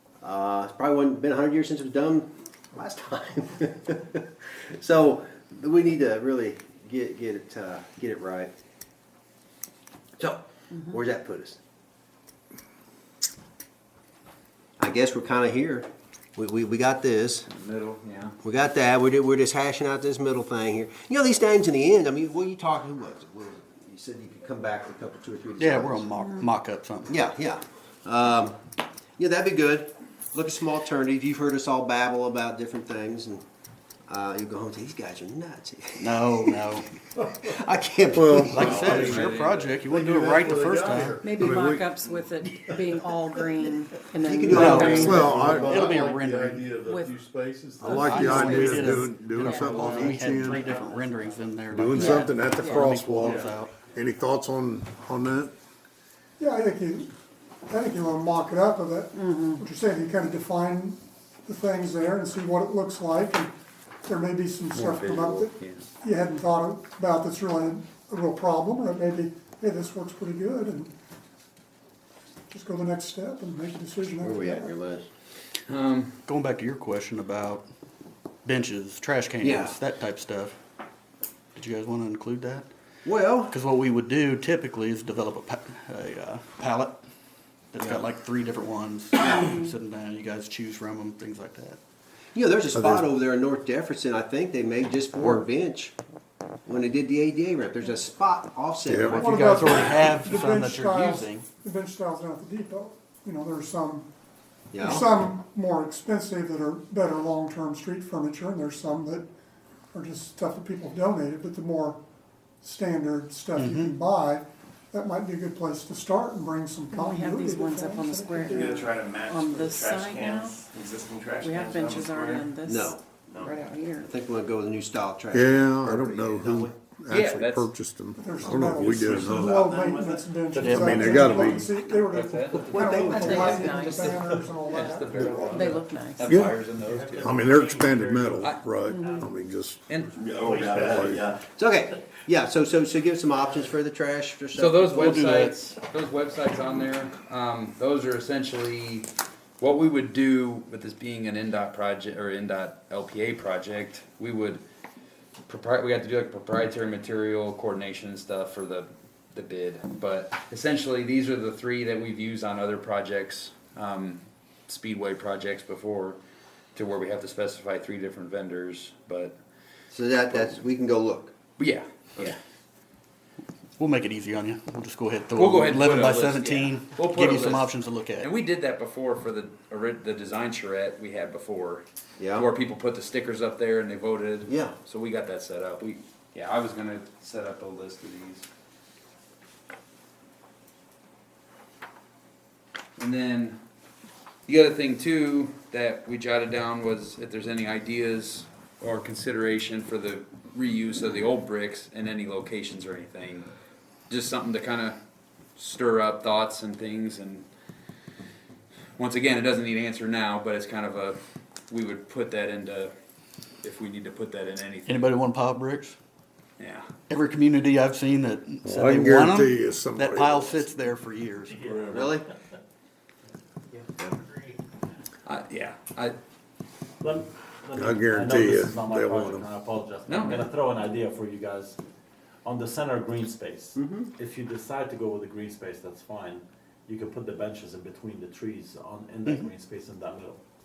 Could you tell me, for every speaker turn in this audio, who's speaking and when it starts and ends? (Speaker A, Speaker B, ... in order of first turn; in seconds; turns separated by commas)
Speaker A: 0.2-8.5, Speaker A: 10.2-11.6, Speaker A: 14.8-17.5, Speaker B: 17.5-18.4, Speaker A: 18.4-26.1, Speaker C: 25.6-27.1, Speaker D: 26.2-26.4, Speaker A: 27.1-28.6, Speaker A: 29.2-33.4, Speaker A: 34.1-39.0, Speaker C: 36.0-36.9, Speaker E: 38.1-39.1, Speaker C: 38.5-41.2, Speaker F: 38.6-39.2, Speaker B: 39.0-39.7, Speaker F: 39.8-41.7, Speaker D: 41.2-45.6, Speaker E: 41.4-41.9, Speaker A: 44.2-45.3, Speaker C: 44.5-46.8, Speaker E: 44.9-45.8, Speaker F: 45.1-49.1, Speaker D: 46.8-47.2, Speaker E: 47.8-50.7, Speaker C: 47.8-53.7, Speaker D: 49.4-50.9, Speaker F: 49.7-51.2, Speaker E: 51.7-55.5, Speaker D: 52.0-52.9, Speaker F: 53.2-53.6, Speaker G: 56.4-57.1, Speaker G: 57.7-63.5, Speaker D: 59.1-59.6, Speaker G: 64.0-70.9, Speaker B: 64.7-65.9, Speaker G: 72.5-74.7, Speaker A: 74.2-75.1, Speaker B: 75.7-76.2, Speaker C: 76.3-77.6, Speaker C: 78.5-80.6, Speaker A: 79.4-79.8, Speaker C: 81.5-82.7, Speaker A: 83.0-83.5, Speaker C: 83.5-87.0, Speaker C: 87.7-91.8, Speaker A: 92.3-95.9, Speaker E: 92.8-93.1, Speaker A: 96.7-99.3, Speaker E: 98.9-99.2, Speaker C: 99.1-101.5, Speaker G: 99.1-104.1, Speaker A: 104.7-105.1, Speaker G: 104.8-109.3, Speaker G: 109.9-112.0, Speaker G: 112.6-118.8, Speaker C: 113.6-114.0, Speaker D: 116.9-120.7, Speaker B: 118.8-122.4, Speaker D: 121.4-124.1, Speaker A: 122.6-123.0, Speaker A: 124.0-126.8, Speaker E: 125.3-129.6, Speaker B: 127.1-127.7, Speaker G: 128.2-135.7, Speaker C: 130.6-131.0, Speaker E: 130.8-131.7, Speaker B: 131.7-137.5, Speaker A: 132.7-133.8, Speaker D: 132.9-134.3, Speaker D: 135.4-136.4, Speaker E: 136.3-136.6, Speaker H: 136.8-138.4, Speaker E: 137.2-139.8, Speaker B: 138.4-138.7, Speaker D: 138.9-139.3, Speaker B: 139.9-141.0, Speaker E: 140.5-141.4, Speaker A: 141.5-145.2, Speaker B: 144.6-154.6, Speaker C: 144.8-145.7, Speaker B: 155.5-166.2, Speaker B: 166.8-169.4, Speaker A: 169.9-171.3, Speaker B: 171.6-172.4, Speaker C: 173.8-178.3, Speaker B: 175.4-181.8, Speaker A: 182.2-182.5, Speaker B: 182.3-188.5, Speaker A: 184.5-184.8, Speaker B: 193.0-193.6, Speaker B: 194.5-203.5, Speaker B: 204.1-205.0, Speaker B: 205.6-207.5, Speaker B: 209.0-212.9, Speaker B: 213.6-215.1, Speaker C: 214.9-216.0, Speaker B: 216.6-216.9, Speaker C: 217.1-222.0, Speaker E: 218.6-220.7, Speaker F: 221.6-222.1, Speaker A: 221.9-222.3, Speaker B: 225.2-226.2, Speaker H: 227.0-231.8, Speaker E: 227.7-229.5, Speaker B: 230.1-230.5, Speaker H: 232.4-240.4, Speaker A: 233.8-234.1